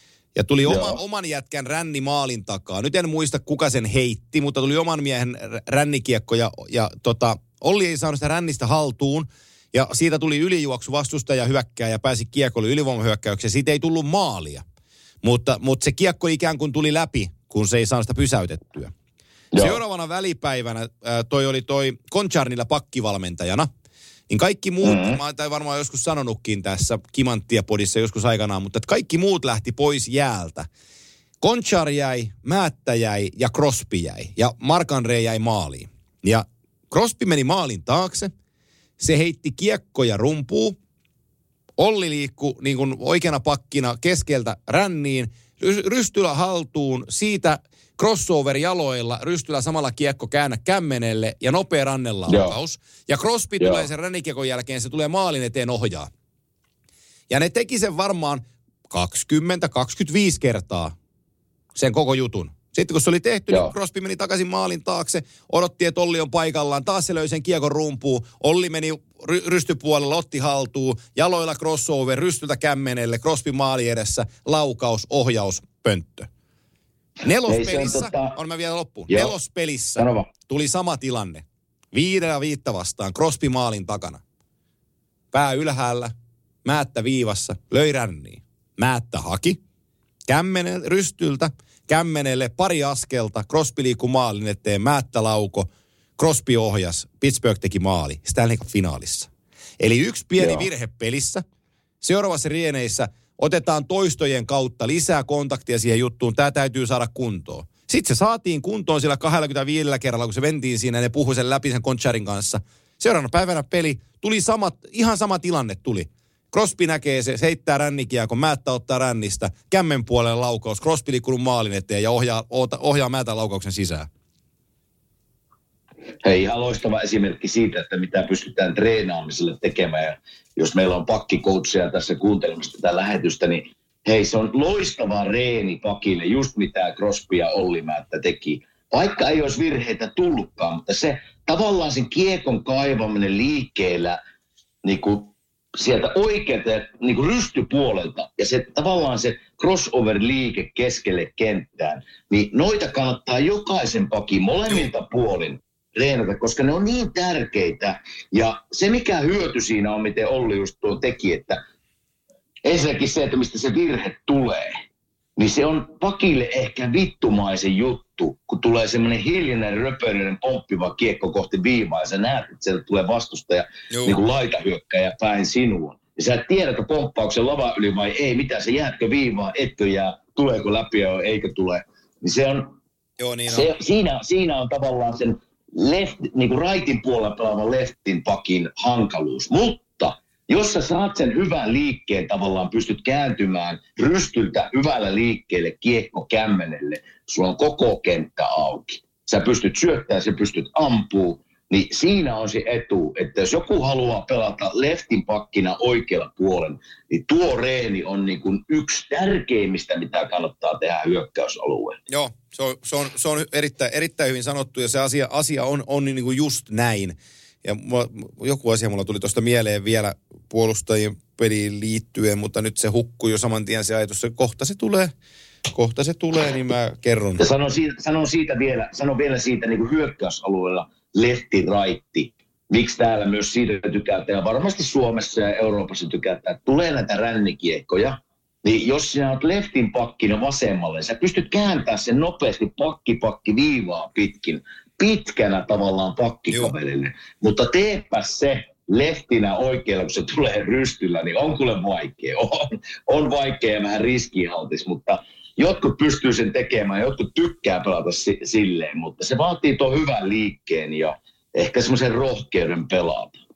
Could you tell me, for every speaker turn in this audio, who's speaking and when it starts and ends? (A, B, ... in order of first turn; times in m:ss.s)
0:00.4-0:14.6 A
0:00.6-0:01.0 B
0:15.2-0:18.9 A
0:19.5-0:19.8 B
0:19.6-0:23.7 A
0:24.3-0:30.7 A
0:24.8-0:25.2 B
0:31.4-0:38.3 A
0:39.0-0:40.8 A
0:41.8-0:56.1 A
0:52.3-0:52.6 B
0:53.6-0:53.9 B
0:57.3-1:01.0 A
1:01.8-1:16.3 A
1:03.5-1:03.7 B
1:17.2-1:24.2 A
1:17.5-1:18.4 B
1:19.1-1:19.3 B
1:20.0-1:20.3 B
1:25.3-1:26.1 A
1:26.6-1:29.6 A
1:30.3-1:41.4 A
1:40.4-1:40.7 B
1:42.0-2:04.1 A
2:06.2-2:24.2 B
2:24.8-2:41.6 B
2:42.6-2:44.8 B
2:45.4-3:02.8 B
2:53.9-2:54.2 A
3:03.2-3:03.7 A
3:03.5-3:32.0 B
3:32.1-3:45.1 A
3:45.7-3:47.4 A
3:47.4-4:23.4 B